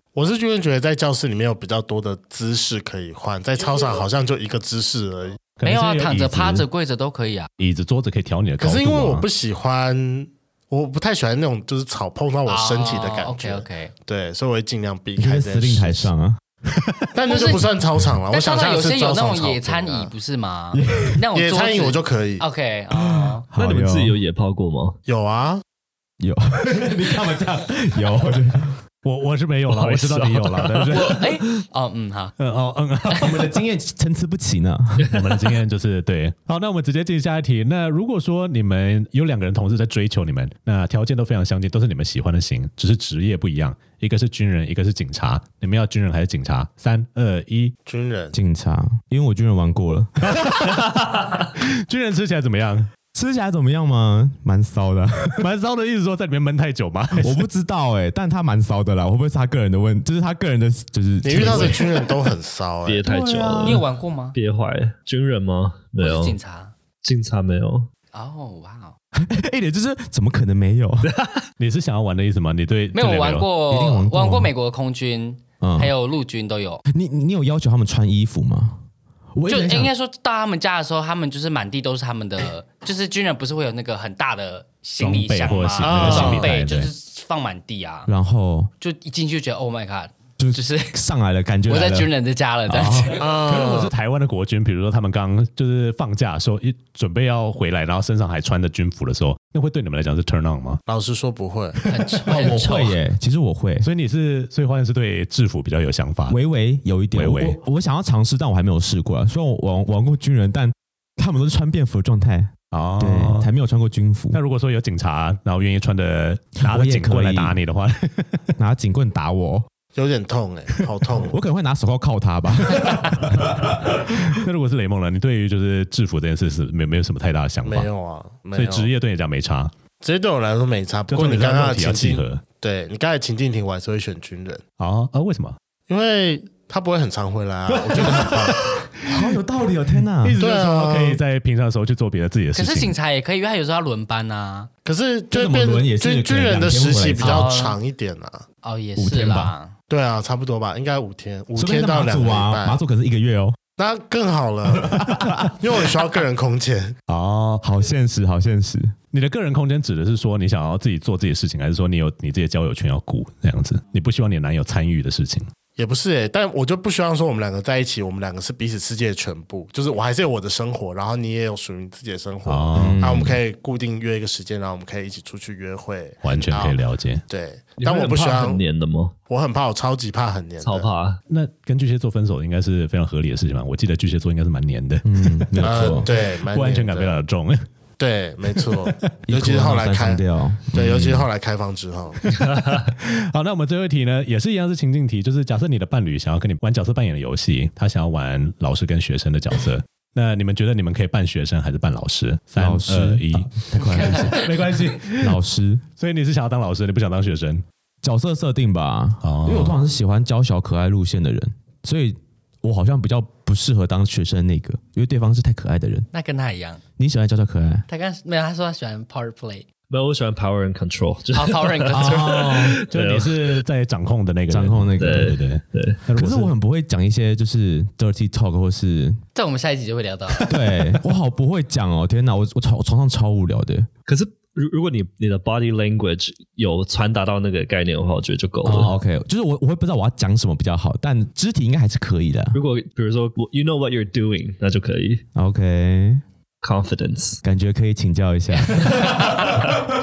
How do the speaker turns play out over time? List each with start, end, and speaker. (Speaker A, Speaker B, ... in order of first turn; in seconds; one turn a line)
Speaker A: 0.1-5.4
Speaker B: 5.6-6.7
Speaker C: 5.6-7.5
Speaker B: 7.6-9.2
Speaker A: 8.6-16.1
Speaker C: 12.4-13.9
Speaker D: 15.2-16.4
Speaker A: 17.1-20.1
Speaker C: 17.3-17.6
Speaker C: 18.3-23.4
Speaker D: 20.7-21.2
Speaker A: 21.3-22.4
Speaker D: 22.9-24.2
Speaker E: 23.5-25.0
Speaker A: 25.1-25.6
Speaker D: 26.2-28.7
Speaker B: 29.0-31.2
Speaker E: 29.7-31.6
Speaker C: 30.9-32.4
Speaker B: 32.4-33.4
Speaker C: 33.1-33.4
Speaker D: 33.2-35.1
Speaker B: 35.1-47.7
Speaker A: 47.9-48.4
Speaker D: 48.3-50.3
Speaker B: 50.2-52.9
Speaker D: 53.1-55.5
Speaker B: 55.4-57.4
Speaker D: 57.2-61.9
Speaker A: 61.2-63.0
Speaker E: 62.9-66.4
Speaker D: 63.0-63.8
Speaker C: 63.6-64.4
Speaker C: 66.0-66.7
Speaker E: 67.0-67.9
Speaker C: 68.1-68.9
Speaker D: 69.2-71.1
Speaker E: 71.0-71.4
Speaker B: 71.6-73.5
Speaker C: 72.9-76.8
Speaker D: 73.7-74.5
Speaker D: 75.6-75.9
Speaker D: 76.9-78.8
Speaker D: 79.3-79.9
Speaker C: 79.5-88.1
Speaker B: 85.0-86.9
Speaker A: 85.8-86.5
Speaker D: 88.1-88.7
Speaker C: 88.8-91.0
Speaker D: 90.4-92.1
Speaker C: 91.7-93.3
Speaker D: 92.7-93.2
Speaker A: 93.2-93.9
Speaker B: 93.4-100.8
Speaker A: 100.9-101.8
Speaker B: 101.8-102.6
Speaker C: 101.9-103.0
Speaker D: 102.3-103.9
Speaker B: 103.8-106.4
Speaker D: 106.3-114.4
Speaker B: 107.1-107.6
Speaker B: 112.7-113.5
Speaker B: 114.3-118.4
Speaker D: 116.6-117.5
Speaker D: 118.6-119.7
Speaker A: 120.0-121.4
Speaker D: 121.3-124.4
Speaker B: 122.7-127.9
Speaker A: 127.6-128.9
Speaker B: 128.6-129.7
Speaker A: 130.0-134.6
Speaker B: 131.1-132.4
Speaker B: 134.8-135.6
Speaker A: 135.9-138.6
Speaker B: 137.9-139.3
Speaker D: 138.0-140.4
Speaker B: 140.2-142.9
Speaker A: 140.4-141.2
Speaker C: 142.6-144.7
Speaker A: 144.8-148.4
Speaker D: 145.3-147.5
Speaker C: 147.2-147.8
Speaker C: 148.6-149.7
Speaker D: 148.9-149.5
Speaker A: 149.9-152.8
Speaker D: 151.6-153.6
Speaker A: 153.8-156.9
Speaker D: 154.7-155.6
Speaker B: 157.1-157.6
Speaker D: 157.6-158.9
Speaker B: 159.1-165.5
Speaker A: 165.8-178.6
Speaker B: 172.4-173.2
Speaker D: 172.7-173.4
Speaker B: 176.2-177.2
Speaker E: 177.8-179.1
Speaker A: 179.3-180.9
Speaker E: 180.6-181.2
Speaker B: 181.3-187.6
Speaker D: 185.0-186.1
Speaker A: 185.6-187.2
Speaker A: 188.0-190.2
Speaker D: 189.3-191.3
Speaker A: 190.7-192.2
Speaker B: 192.3-205.4
Speaker E: 192.5-192.8
Speaker D: 202.6-204.5
Speaker C: 203.8-204.5
Speaker D: 205.2-205.8
Speaker B: 206.0-207.6
Speaker D: 208.0-216.1
Speaker B: 209.2-209.8
Speaker C: 216.1-216.8
Speaker D: 217.0-217.9
Speaker C: 217.9-219.7
Speaker E: 219.9-223.6
Speaker C: 221.3-222.7
Speaker D: 221.9-222.8
Speaker B: 222.9-226.5
Speaker D: 224.5-225.4
Speaker E: 225.0-226.0
Speaker D: 226.2-229.2
Speaker C: 229.3-230.5
Speaker D: 230.5-233.9
Speaker E: 234.1-238.9
Speaker D: 238.6-242.6
Speaker E: 242.5-245.2
Speaker D: 245.3-246.2
Speaker E: 246.6-247.4
Speaker D: 247.4-249.3
Speaker B: 248.9-249.6
Speaker E: 249.1-249.5